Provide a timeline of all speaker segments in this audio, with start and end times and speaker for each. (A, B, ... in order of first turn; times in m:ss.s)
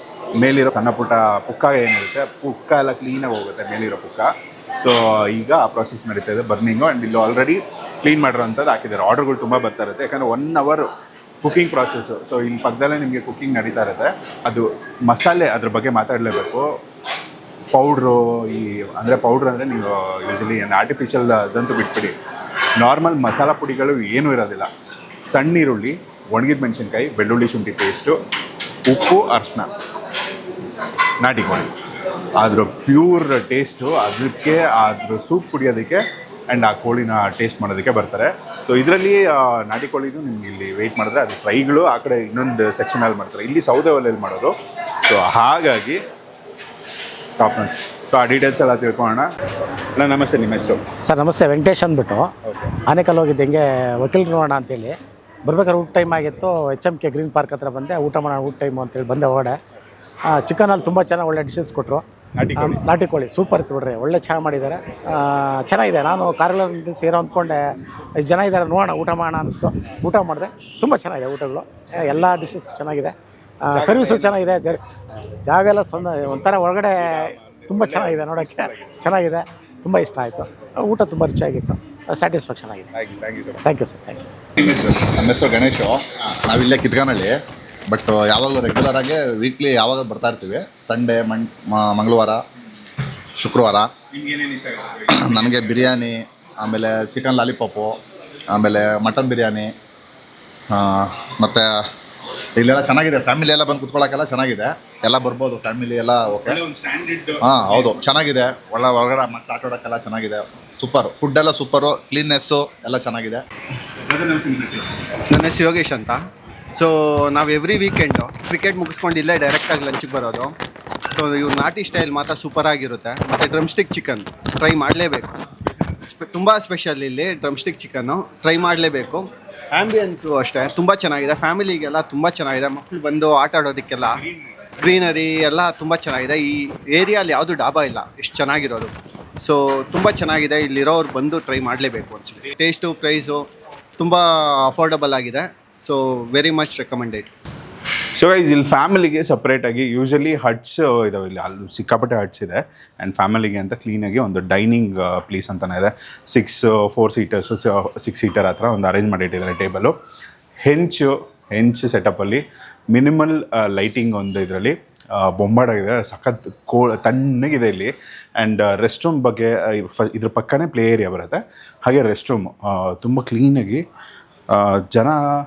0:00.4-0:10.9 A
0:11.4-0:16.7 A
0:17.7-0:22.2 A
0:22.8-0:24.7 A
0:25.3-0:28.2 A
0:28.9-0:29.7 A
0:31.2-0:31.7 A
0:32.4-0:44.6 A
0:45.1-0:46.0 A
0:47.4-0:49.3 A
0:50.0-0:50.9 A
0:51.0-0:52.3 B
0:52.4-0:52.8 A
0:52.9-0:59.6 B
1:00.3-1:02.0 B
1:02.4-1:02.8 A
1:02.6-1:07.6 B
1:08.2-1:22.9 B
1:13.7-1:14.7 A
1:16.1-1:19.1 A
1:22.9-1:23.7 A
1:23.6-1:24.2 B
1:24.6-1:27.4 C
1:27.9-1:32.4 C
1:33.4-1:33.9 C
1:34.1-1:35.8 A
1:35.1-1:38.0 C
1:38.5-1:39.7 C
1:40.7-1:41.8 C
1:42.6-1:46.6 C
1:46.5-1:48.1 A
1:47.4-1:53.4 C
1:54.0-1:54.9 A
1:55.3-1:56.2 D
1:56.7-2:00.5 D
2:01.1-2:05.4 D
2:06.0-2:14.2 D
2:14.8-2:27.3 D
2:28.2-2:40.0 A
2:40.6-2:53.8 A
2:54.5-2:55.2 A